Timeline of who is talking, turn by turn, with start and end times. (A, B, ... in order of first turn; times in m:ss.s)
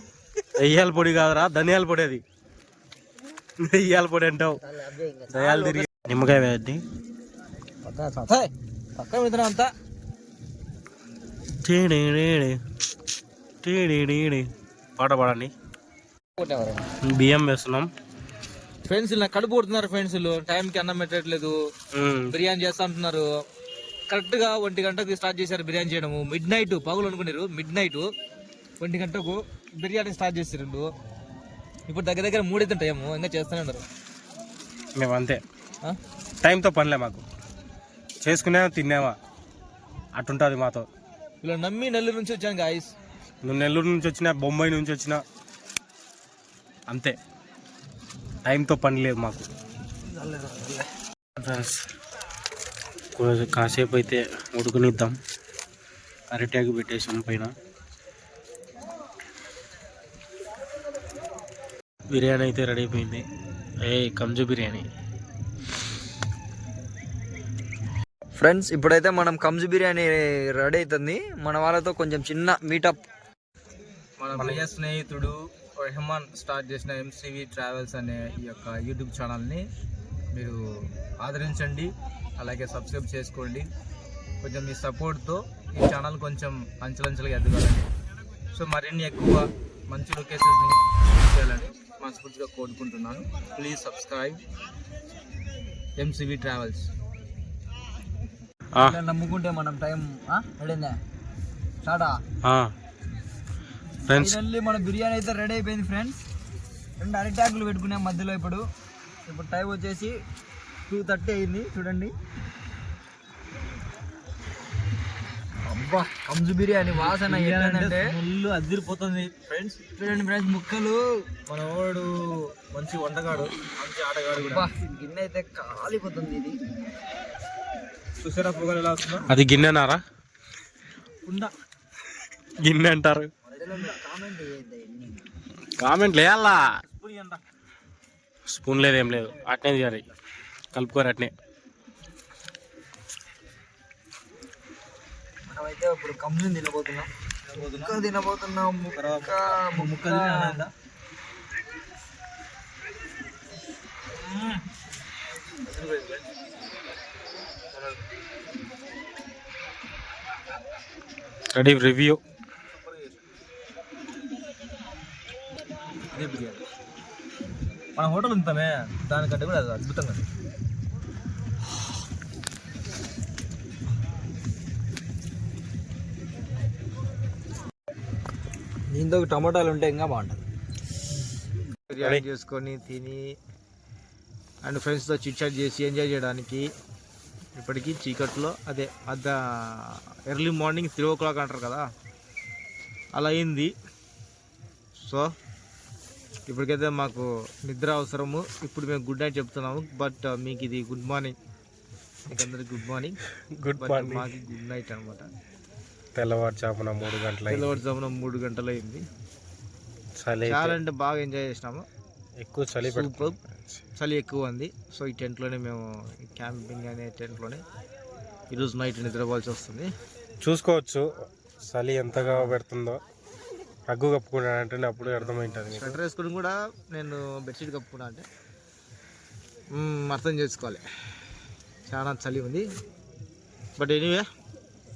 0:00.6-0:02.2 A
0:03.6-0:04.6 A
0:04.5-0:05.4 B
0:05.3-0:06.8 A
0:05.3-0:05.9 C
0:07.8-0:09.7 C
0:11.6-0:12.6 A
0:13.6-0:15.5 A
0:16.4-0:16.8 C
0:17.0-0:17.9 A
0:18.8-0:21.6 C
0:21.9-0:22.3 A
0:22.3-0:23.2 C
0:24.1-0:28.1 C
0:28.8-0:30.9 C
0:31.9-0:33.8 C
0:35.0-0:35.4 A
0:36.4-0:37.2 A
0:38.2-0:39.2 A
0:40.1-0:40.9 A
0:41.4-0:42.9 C
0:43.4-0:45.2 A
0:46.9-0:47.2 A
0:48.4-0:49.4 A
0:50.1-0:50.8 C
0:51.4-0:51.8 A
0:53.2-0:55.2 A
0:56.3-0:57.5 A
1:02.1-1:03.2 A
1:03.8-1:04.9 A
1:08.4-1:13.0 B
1:14.2-1:19.6 C
1:14.3-1:14.6 A
1:20.3-1:23.7 C
1:24.4-1:27.9 C
1:28.5-1:34.4 C
1:36.0-1:36.9 C
1:38.8-1:41.0 B
1:41.8-1:42.2 B
1:42.4-1:42.7 A
1:44.1-1:44.4 A
1:44.1-1:46.2 B
1:47.0-1:48.6 B
1:49.2-1:50.1 B
1:50.9-1:52.1 B
1:55.6-1:58.1 B
1:56.9-1:59.8 C
2:00.0-2:01.2 B
2:01.5-2:04.7 C
2:04.4-2:06.6 B
2:08.2-2:09.3 C
2:09.3-2:10.0 A
2:11.2-2:11.5 C
2:12.6-2:13.3 A
2:13.4-2:15.2 B
2:15.8-2:16.7 A
2:16.8-2:17.4 C
2:18.5-2:20.1 A
2:20.7-2:21.3 A
2:25.4-2:27.1 B
2:27.4-2:28.1 C
2:27.7-2:30.7 B
2:28.8-2:30.7 C
2:34.2-2:34.6 C
2:35.6-2:36.2 C
2:41.5-2:42.2 A
2:42.7-2:43.2 C
2:46.1-2:46.6 C
2:48.0-2:50.2 C
2:58.9-3:00.4 C
2:59.0-2:59.6 B
3:01.9-3:03.2 C
3:02.0-3:02.2 A
3:04.6-3:06.7 C
3:07.6-3:11.8 C
3:13.1-3:13.7 C
3:15.0-3:15.3 C
3:16.5-3:21.3 C
3:22.3-3:23.2 C
3:23.5-3:24.3 A
3:23.8-3:25.3 C
3:26.2-3:27.8 A
3:27.5-3:29.0 C
3:30.2-3:30.8 A
3:30.4-3:31.8 C
3:32.4-3:33.8 A
3:32.8-3:33.4 C
3:34.0-3:37.6 C
3:38.5-3:39.9 C
3:40.4-3:41.0 A
3:41.6-3:43.0 A
3:42.3-3:42.6 C
3:43.9-3:46.0 A
3:45.1-3:48.2 C
3:49.7-3:50.8 C
3:51.9-3:52.7 C
3:53.8-3:54.2 C